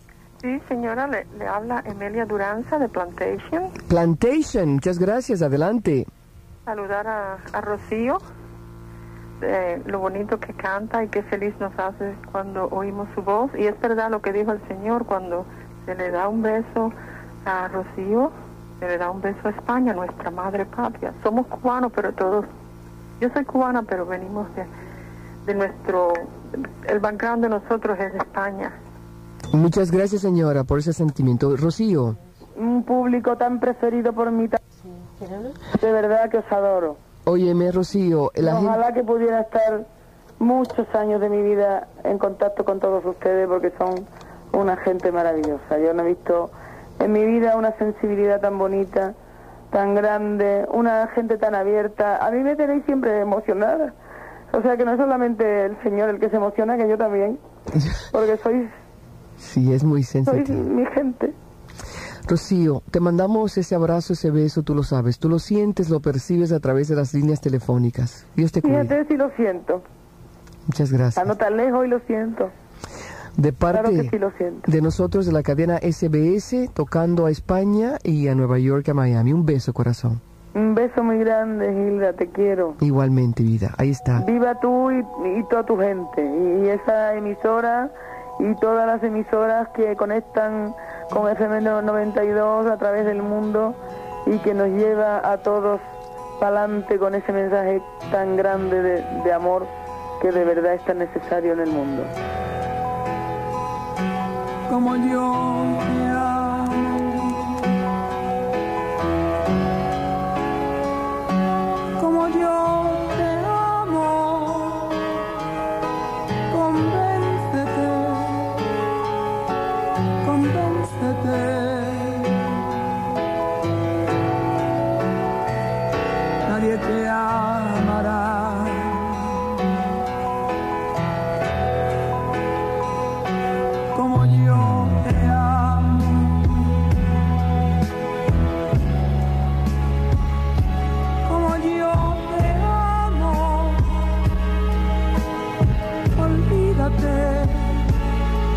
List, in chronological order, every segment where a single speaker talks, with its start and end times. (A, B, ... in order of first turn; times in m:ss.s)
0:00.4-0:03.7 A
0:03.9-0:06.1 B
0:06.7-0:08.2 A
0:09.4-0:22.5 A
0:23.2-0:24.7 A
0:25.4-0:28.7 A
0:29.5-0:32.2 B
0:32.6-0:34.6 C
0:35.7-0:37.0 C
0:37.2-0:38.8 B
0:38.4-0:39.9 C
0:40.4-0:49.1 C
0:49.7-0:53.9 C
0:54.5-0:57.4 C
0:58.1-0:58.7 C
0:59.4-1:00.6 B
1:00.3-1:01.3 C
1:02.3-1:09.0 B
1:08.6-1:09.8 C
1:10.7-1:11.3 B
1:11.2-1:12.5 C
1:13.4-1:14.1 B
1:13.7-1:14.7 C
1:14.6-1:20.2 B
1:20.5-1:22.8 C
1:22.8-1:24.2 B
1:24.2-1:35.8 C
1:36.4-1:42.1 C
1:44.7-1:47.4 D
1:52.0-1:55.0 D
1:56.6-1:58.6 D
2:00.2-2:02.5 D
2:06.5-2:09.3 D
2:13.9-2:16.7 D
2:21.2-2:23.9 D
2:26.2-2:27.8 D
2:26.3-2:27.1 C